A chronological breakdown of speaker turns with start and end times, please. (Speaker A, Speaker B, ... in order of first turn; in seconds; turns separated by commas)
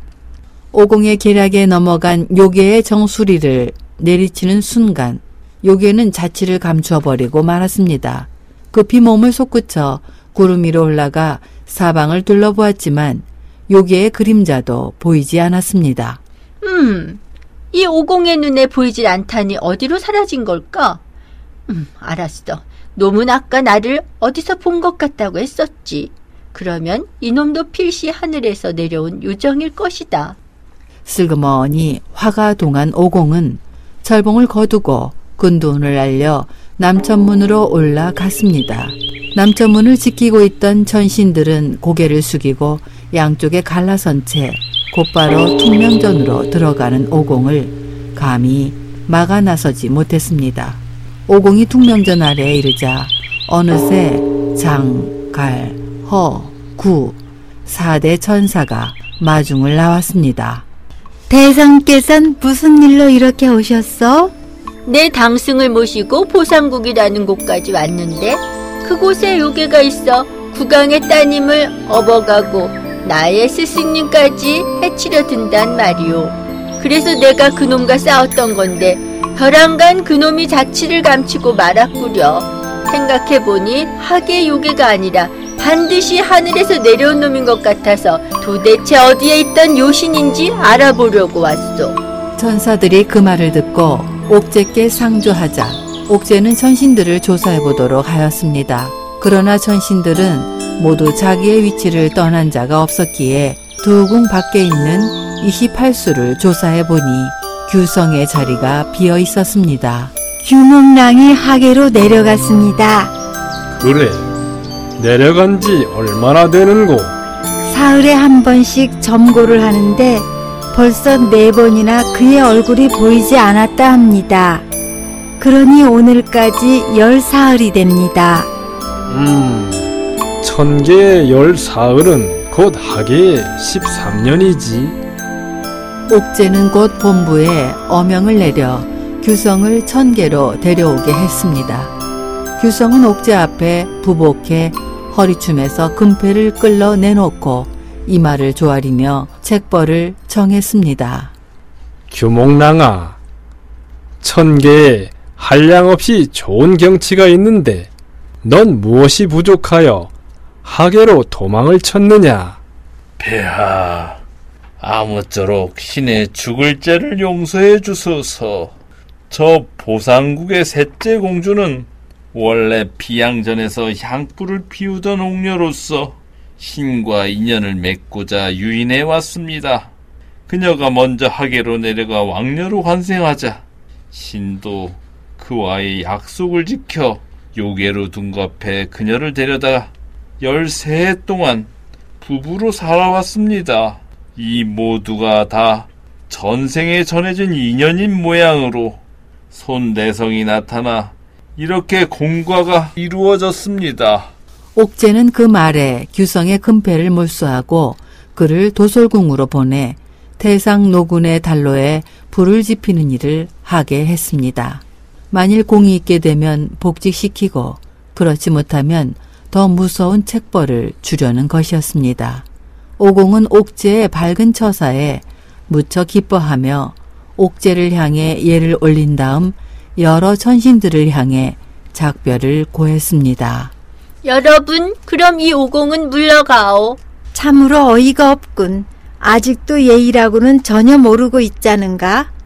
Speaker A: 0.7-16.2, Speaker B: 16.6-17.2, Speaker B: 17.7-21.0, Speaker B: 21.7-30.4, Speaker A: 31.1-60.7, Speaker C: 61.3-64.3, Speaker B: 64.8-92.0, Speaker A: 92.4-110.2, Speaker C: 110.4-113.1, Speaker D: 113.7-114.3, Speaker D: 115.0-117.2, Speaker C: 117.7-124.7, Speaker C: 125.4-128.5, Speaker D: 129.1-129.9, Speaker D: 130.4-135.0, Speaker A: 136.1-141.9, Speaker A: 142.6-151.3, Speaker D: 152.1-153.2, Speaker D: 154.2-157.9, Speaker D: 158.4-160.1, Speaker D: 160.6-162.6, Speaker E: 163.2-164.2, Speaker E: 164.8-168.7, Speaker E: 169.3-179.9, Speaker E: 180.5-191.7, Speaker E: 192.2-199.0, Speaker E: 199.5-204.3, Speaker A: 204.8-222.4, Speaker A: 223.0-233.7, Speaker B: 234.2-237.0, Speaker C: 237.3-242.3